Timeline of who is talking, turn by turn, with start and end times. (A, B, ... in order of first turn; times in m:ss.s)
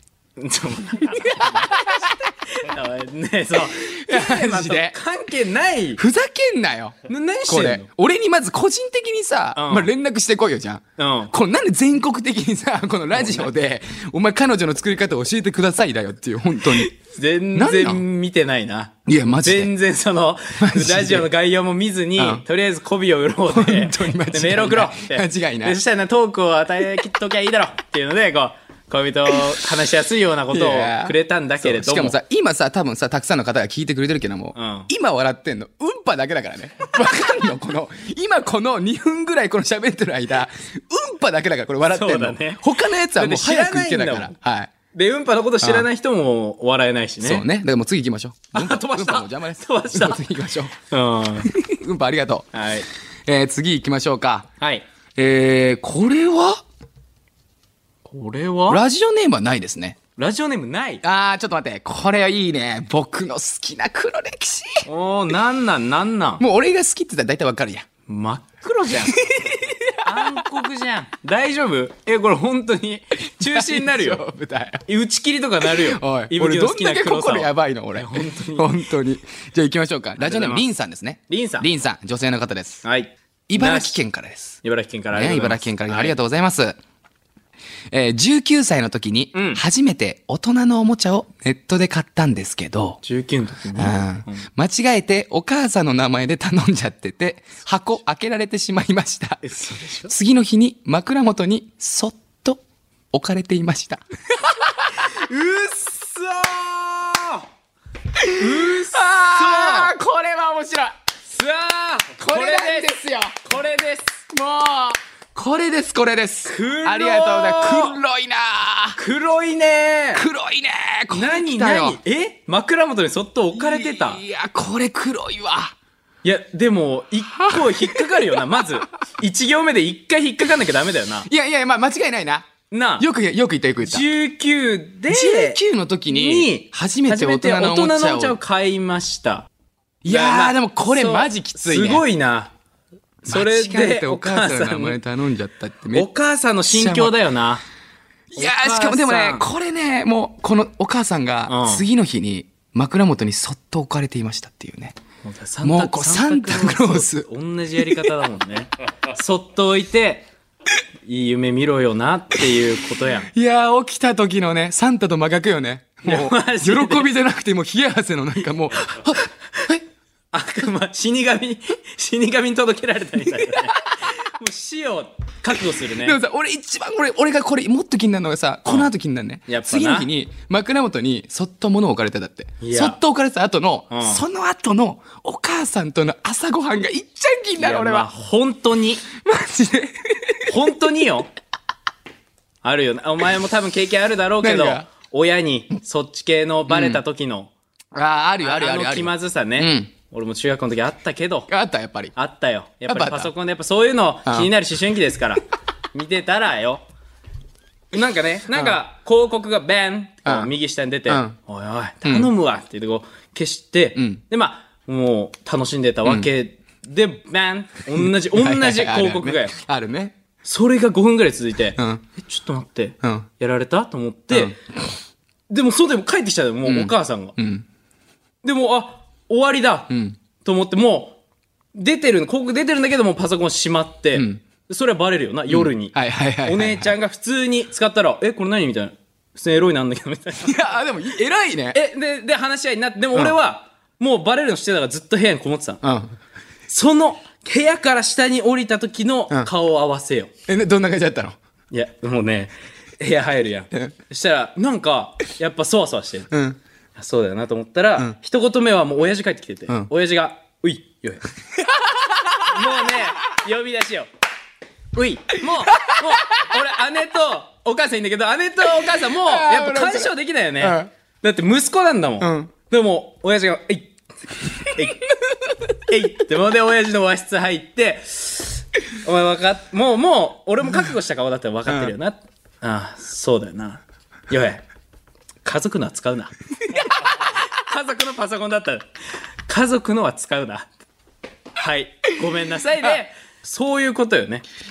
0:00.4-0:06.0 A
0:01.2-0:01.8 B
0:03.7-0:05.0 B
0:06.0-0:07.0 B
0:07.1-0:07.9 A
0:07.5-0:16.9 B
0:09.6-0:09.9 A
0:11.0-0:11.3 A
0:13.1-0:13.5 A
0:16.6-0:32.2 A
0:17.5-0:18.0 B
0:19.0-0:19.7 B
0:20.6-0:21.3 B
0:22.2-0:22.4 B
0:23.5-0:25.8 B
0:30.5-0:44.7 B
0:34.5-0:34.9 A
0:41.9-0:42.6 A
0:43.1-0:44.3 A
0:44.9-0:47.4 A
0:45.6-0:45.9 B
0:47.2-0:50.7 B
0:48.5-0:50.2 A
0:50.9-0:51.5 A
0:51.4-0:52.5 B
0:52.5-0:52.9 A
0:53.2-0:54.5 B
0:54.6-0:54.8 A
0:55.2-0:56.6 B
0:58.0-0:58.8 A
0:58.7-1:00.0 B
1:00.2-1:01.0 A
1:01.0-1:04.8 B
1:04.8-1:06.4 A
1:06.4-1:07.9 B
1:08.1-1:14.2 A
1:09.2-1:10.4 B
1:13.4-1:14.8 B
1:14.9-1:18.7 A
1:15.6-1:22.8 B
1:20.2-1:20.6 A
1:21.3-1:21.7 A
1:22.8-1:24.0 A
1:23.5-1:26.8 B
1:24.6-1:26.2 A
1:27.9-1:33.0 B
1:29.3-1:29.6 A
1:33.0-1:34.4 A
1:33.8-1:39.4 B
1:39.4-1:40.1 A
1:40.1-1:45.1 B
1:44.9-1:47.5 A
1:48.2-1:50.9 B
1:48.3-1:49.9 A
1:51.3-1:54.2 A
1:52.2-1:53.4 B
1:54.3-1:59.0 B
1:56.5-1:58.0 A
1:59.0-2:00.2 A
2:00.1-2:02.0 B
2:01.1-2:04.2 A
2:03.5-2:05.7 B
2:06.2-2:11.3 A
2:07.3-2:08.7 B
2:11.3-2:14.0 B
2:12.7-2:13.1 A
2:13.8-2:19.5 A
2:15.1-2:18.4 B
2:20.0-2:22.0 B
2:20.1-2:22.5 A
2:23.2-2:26.1 B
2:23.2-2:25.0 A
2:25.9-2:27.6 A
2:26.6-2:27.2 B
2:28.3-2:35.0 B
2:28.4-2:29.4 A
2:31.5-2:31.8 A
2:35.2-2:40.3 A
2:35.6-2:38.1 B
2:41.0-2:43.3 A
2:43.2-2:49.8 B
2:46.0-2:47.1 A
2:50.3-2:56.2 A
2:53.4-2:53.7 B
2:55.8-3:08.1 B
2:59.5-3:00.1 A
3:02.6-3:03.0 A
3:03.9-3:04.2 A
3:07.6-3:09.0 A
3:09.1-3:10.6 B
3:10.4-3:11.3 A
3:12.6-3:17.5 A
3:14.4-3:14.9 B
3:16.7-3:17.0 B
3:17.9-3:19.9 B
3:18.4-3:21.5 A
3:21.5-3:22.1 B
3:22.1-3:26.8 A
3:22.9-3:23.3 B
3:24.2-3:24.5 B
3:27.9-3:39.5 A
3:28.5-3:28.8 B
3:30.2-3:30.5 B
3:31.1-3:31.4 B
3:32.0-3:32.3 B
3:34.0-3:34.2 B
3:36.0-3:36.3 B
3:37.9-3:40.2 B
3:40.4-3:44.6 A
3:41.8-3:42.0 B
3:43.0-3:43.3 B
3:44.3-3:44.6 B
3:45.5-3:47.4 A
3:46.6-3:47.6 B
3:48.4-3:51.2 A
3:49.9-3:50.2 B
3:51.7-4:00.7 A
3:54.1-3:54.4 B
3:55.5-3:56.9 B
4:00.4-4:01.8 B
4:01.7-4:05.8 A
4:05.8-4:06.2 B
4:06.7-4:10.3 A
4:10.5-4:11.4 B
4:11.7-4:16.3 A
4:16.3-4:16.6 B
4:17.0-4:21.2 A
4:21.6-4:22.6 B
4:22.4-4:24.1 A
4:24.9-4:33.9 A
4:25.8-4:26.2 B
4:28.8-4:30.9 B
4:32.2-4:32.5 B
4:34.7-4:35.0 A
4:35.9-4:44.6 A
4:41.7-4:41.9 B
4:45.4-4:48.9 A
4:49.5-4:50.7 A
4:51.6-4:54.4 A